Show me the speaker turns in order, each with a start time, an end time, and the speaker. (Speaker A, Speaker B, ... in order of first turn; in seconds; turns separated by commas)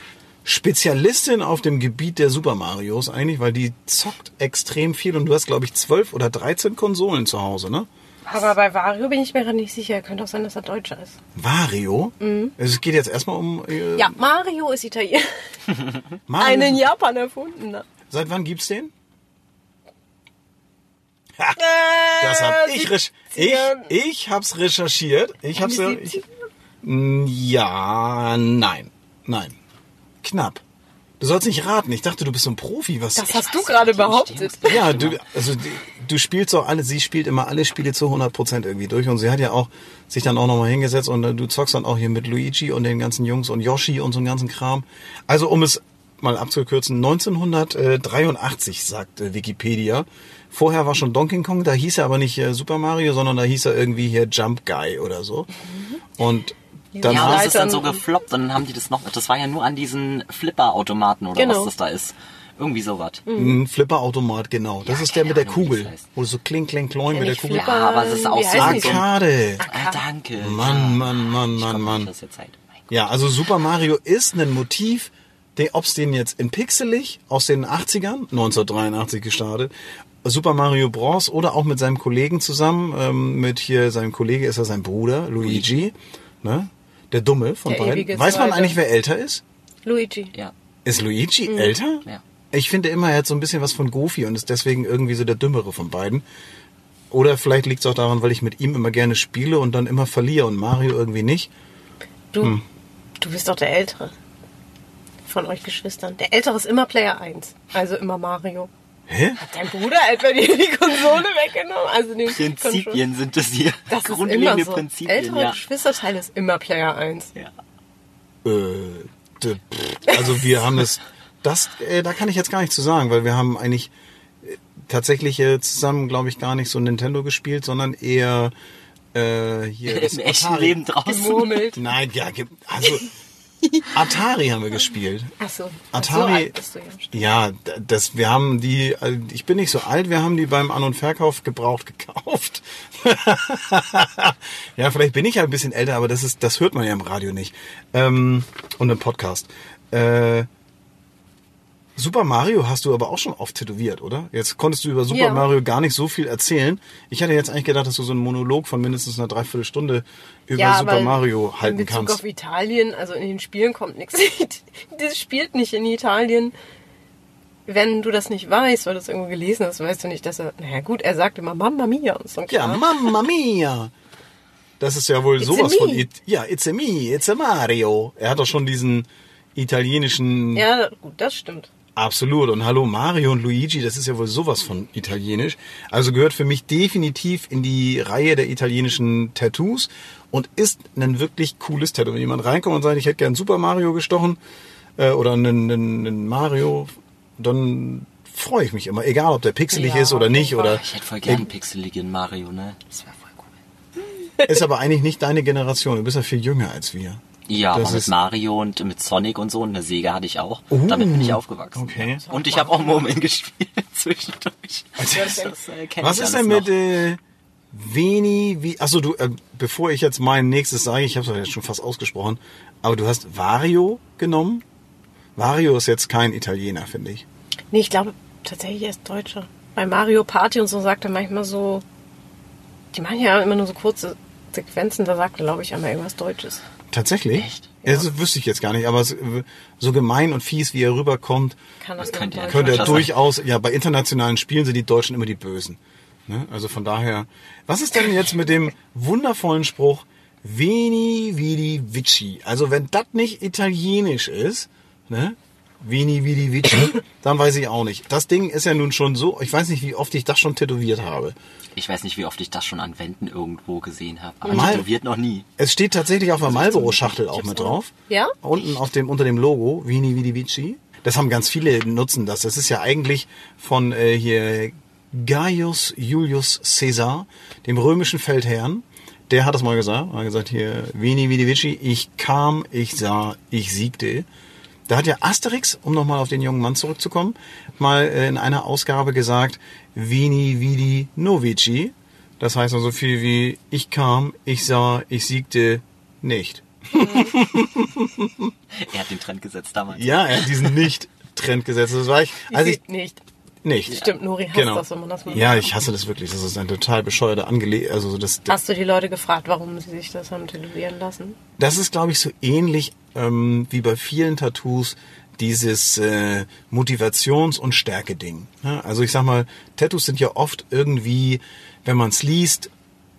Speaker A: 0.5-7.9, Speaker B: 8.3-11.2, Speaker A: 11.4-14.2, Speaker B: 12.2-12.5, Speaker B: 14.0-15.3, Speaker A: 16.3-16.8, Speaker B: 16.4-17.9, Speaker A: 18.1-18.9, Speaker B: 21.6-23.9, Speaker A: 22.2-26.2, Speaker B: 25.6-26.2, Speaker A: 26.8-29.6, Speaker A: 30.2-30.6, Speaker A: 31.2-33.4, Speaker B: 33.2-34.9, Speaker C: 33.3-35.2, Speaker A: 34.7-55.5, Speaker B: 55.7-56.0, Speaker A: 56.2-57.5, Speaker B: 56.9-58.0, Speaker C: 57.1-63.2, Speaker B: 61.4-61.7, Speaker B: 63.3-63.6, Speaker A: 63.4-67.7, Speaker C: 64.8-66.1, Speaker B: 67.1-69.0, Speaker C: 67.5-69.1, Speaker A: 68.6-69.6, Speaker B: 69.6-70.0, Speaker C: 69.6-72.9, Speaker A: 70.4-72.1, Speaker A: 72.9-79.7, Speaker A: 80.2-89.4, Speaker B: 87.7-88.8, Speaker B: 89.8-90.3, Speaker A: 90.8-96.2, Speaker A: 97.1-101.5, Speaker B: 103.2-104.1, Speaker B: 105.3-108.7, Speaker A: 109.1-109.4, Speaker B: 109.4-113.0, Speaker C: 112.3-115.6, Speaker B: 113.9-117.3, Speaker A: 118.5-123.9, Speaker A: 124.4-128.5, Speaker A: 129.1-130.8, Speaker C: 129.9-131.7, Speaker B: 131.1-131.8, Speaker A: 131.7-133.1, Speaker A: 133.9-135.3, Speaker B: 135.4-137.2, Speaker A: 135.9-136.5, Speaker A: 137.1-150.5, Speaker A: 152.0-162.2, Speaker B: 155.1-155.5, Speaker B: 160.6-166.5, Speaker B: 167.7-173.2, Speaker A: 172.5-173.9, Speaker A: 174.8-180.7, Speaker B: 175.4-176.1, Speaker B: 180.6-181.7, Speaker A: 182.0-194.4, Speaker A: 195.0-201.4, Speaker B: 199.7-200.7, Speaker C: 200.5-203.5, Speaker A: 204.4-208.1, Speaker C: 207.5-216.8, Speaker A: 210.7-212.2, Speaker B: 212.2-213.1, Speaker A: 215.0-217.2, Speaker A: 217.7-224.6, Speaker A: 225.4-227.2, Speaker B: 227.7-231.8, Speaker B: 232.9-236.6, Speaker A: 236.9-241.6, Speaker C: 237.3-237.7, Speaker B: 241.8-243.1, Speaker C: 242.0-243.2, Speaker A: 242.5-261.4, Speaker C: 261.8-265.5, Speaker B: 264.4-264.8, Speaker A: 264.5-264.9, Speaker A: 265.6-267.9, Speaker C: 266.5-267.2, Speaker B: 266.5-268.4, Speaker A: 268.4-284.3, Speaker A: 284.9-298.5, Speaker B: 296.9-297.4, Speaker C: 298.8-300.8, Speaker A: 299.9-302.8, Speaker B: 302.5-303.2, Speaker A: 303.6-304.0, Speaker B: 303.9-305.7, Speaker A: 304.5-308.6, Speaker B: 308.5-311.4, Speaker A: 311.6-322.7